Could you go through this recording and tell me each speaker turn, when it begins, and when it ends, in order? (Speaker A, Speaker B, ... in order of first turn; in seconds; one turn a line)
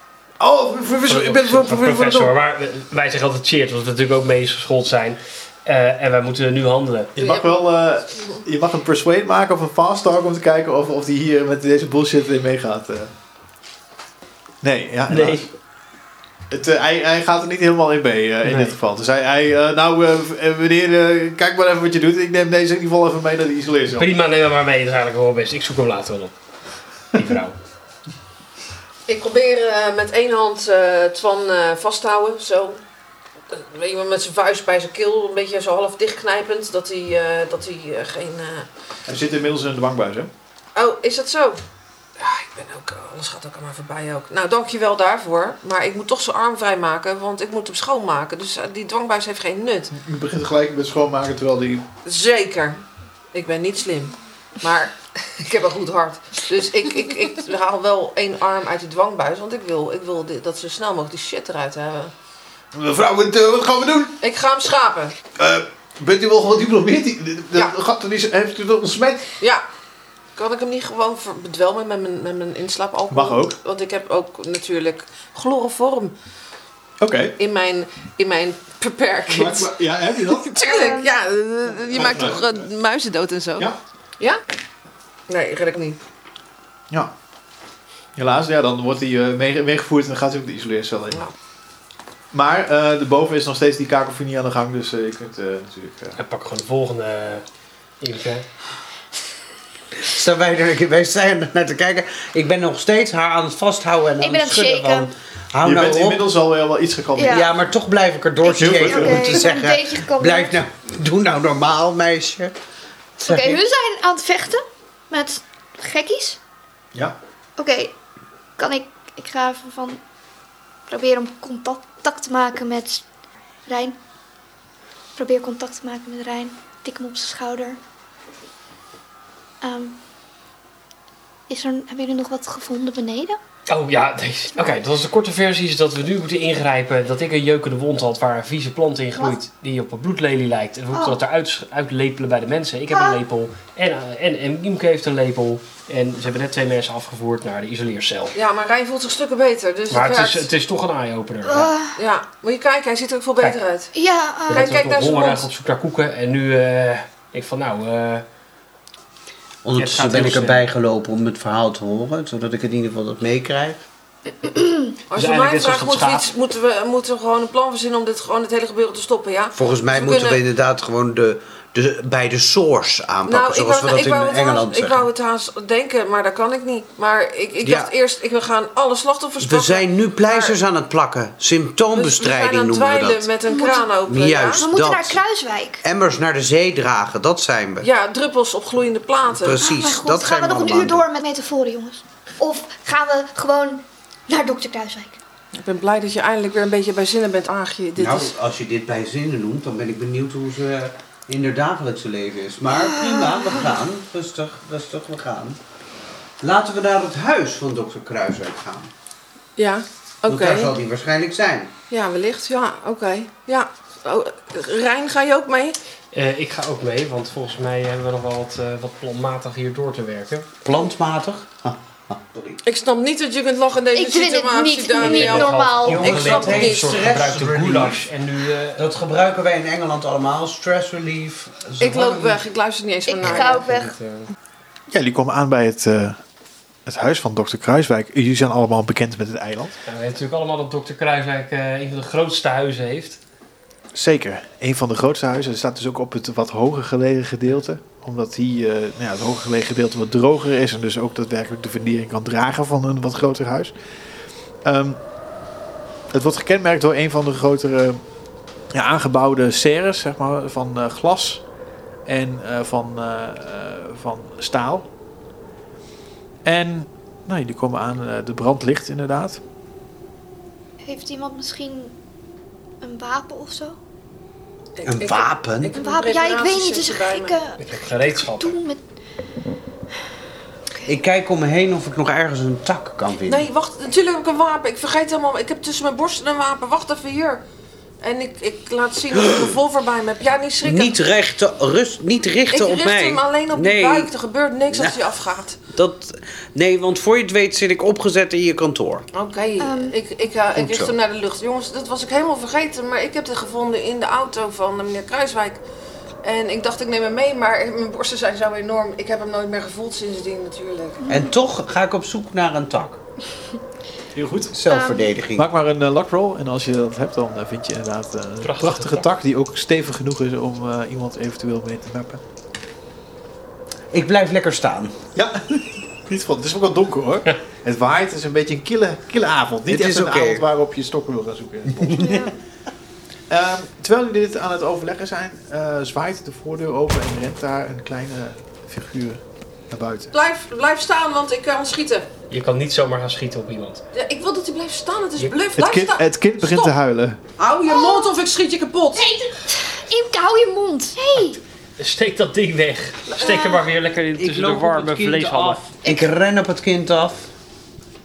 Speaker A: 0.4-2.3
Speaker B: 1.1-7.1
Speaker A: 7.2-13.1
Speaker C: 7.2-7.7
Speaker A: 14.6-15.5
Speaker B: 15.1-15.5
Speaker A: 16.5-24.1
Speaker B: 18.4-18.8
Speaker B: 24.0-26.4
Speaker B: 27.1-27.6
Speaker C: 29.1-32.8
Speaker C: 33.5-38.7
Speaker A: 39.1-40.3
Speaker C: 40.8-41.6
Speaker C: 42.2-49.9
Speaker A: 49.9-51.9
Speaker C: 52.0-52.8
Speaker C: 53.3-62.1
Speaker A: 62.7-64.2
Speaker C: 64.2-65.2
Speaker A: 65.4-69.3
Speaker C: 70.3-76.1
Speaker A: 73.1-73.6
Speaker A: 77.0-77.4
Speaker C: 77.4-84.4
Speaker A: 79.3-80.7
Speaker D: 80.6-81.1
Speaker A: 81.9-82.7
Speaker C: 85.3-86.0
Speaker A: 88.2-91.2
Speaker A: 92.3-96.2
Speaker B: 96.2-97.4
Speaker B: 98.0-98.5
Speaker E: 100.0-106.3
Speaker D: 104.2-105.1
Speaker A: 105.6-107.7
Speaker D: 107.2-107.5
Speaker E: 107.3-112.6
Speaker D: 108.4-110.6
Speaker A: 108.6-109.4
Speaker E: 113.2-113.6
Speaker D: 113.2-116.4
Speaker D: 117.6-118.0
Speaker D: 118.6-120.0
Speaker D: 120.9-123.0
Speaker D: 123.7-124.0
Speaker D: 125.2-127.8
Speaker D: 129.6-130.0
Speaker D: 131.5-133.4
Speaker B: 133.7-148.4
Speaker D: 139.2-139.4
Speaker D: 140.9-141.2
Speaker D: 142.9-143.2
Speaker C: 148.3-150.5
Speaker B: 149.9-151.7
Speaker D: 151.4-152.0
Speaker C: 152.0-153.9
Speaker D: 153.9-154.7
Speaker B: 154.5-158.2
Speaker C: 154.5-155.5
Speaker E: 159.6-163.8
Speaker B: 159.8-160.7
Speaker C: 165.1-170.4
Speaker B: 165.2-166.3
Speaker E: 169.6-175.1
Speaker C: 173.3-180.6
Speaker E: 177.6-177.9
Speaker E: 179.4-183.3
Speaker C: 181.9-184.7
Speaker D: 183.5-183.9
Speaker E: 184.1-185.2
Speaker D: 184.6-185.8
Speaker E: 185.8-187.9
Speaker C: 187.8-189.6
Speaker E: 189.3-191.1
Speaker D: 189.6-195.2
Speaker C: 195.6-198.3
Speaker E: 198.0-205.6
Speaker D: 202.8-203.6
Speaker E: 206.4-208.9
Speaker C: 209.6-210.8
Speaker E: 210.3-211.7
Speaker C: 211.9-215.8
Speaker B: 216.1-220.5
Speaker E: 220.6-222.6
Speaker C: 222.7-227.2
Speaker D: 223.9-226.2
Speaker B: 225.0-228.8
Speaker E: 225.8-228.1
Speaker E: 228.8-232.4
Speaker C: 231.8-233.7
Speaker D: 233.1-234.0
Speaker E: 233.3-233.7
Speaker A: 234.9-236.2
Speaker A: 236.9-239.8
Speaker B: 239.9-243.2
Speaker A: 243.9-253.7
Speaker A: 254.6-255.0
Speaker A: 256.1-258.0
Speaker A: 258.7-261.4
Speaker A: 262.1-264.9
Speaker A: 266.4-269.4
Speaker D: 270.8-271.9
Speaker D: 272.8-273.8
Speaker C: 274.8-277.4
Speaker E: 274.9-275.8
Speaker D: 275.7-278.8
Speaker B: 277.6-278.6
Speaker E: 280.9-283.5
Speaker C: 283.3-287.4
Speaker C: 288.0-291.0
Speaker E: 289.1-289.6
Speaker E: 290.6-294.1
Speaker C: 292.5-295.6
Speaker E: 294.7-299.1
Speaker C: 299.1-305.6
Speaker D: 299.6-299.9
Speaker E: 300.6-300.9
Speaker C: 306.2-311.0
Speaker D: 311.0-311.3
Speaker E: 311.1-313.0
Speaker A: 314.1-314.6
Speaker E: 314.5-315.5
Speaker D: 314.7-315.1
Speaker A: 315.4-322.2
Speaker B: 318.4-319.1
Speaker E: 323.9-325.0
Speaker A: 325.1-332.2
Speaker E: 329.7-330.4
Speaker E: 331.7-332.1
Speaker D: 332.0-332.3
Speaker A: 333.3-340.1
Speaker C: 340.1-342.1
Speaker B: 342.3-343.8
Speaker C: 343.9-346.7
Speaker A: 345.6-347.2
Speaker C: 347.4-349.1
Speaker D: 347.7-348.1
Speaker D: 348.9-351.4
Speaker B: 351.8-355.6
Speaker C: 353.2-353.5
Speaker D: 353.2-353.6
Speaker E: 354.2-357.3
Speaker D: 355.8-356.1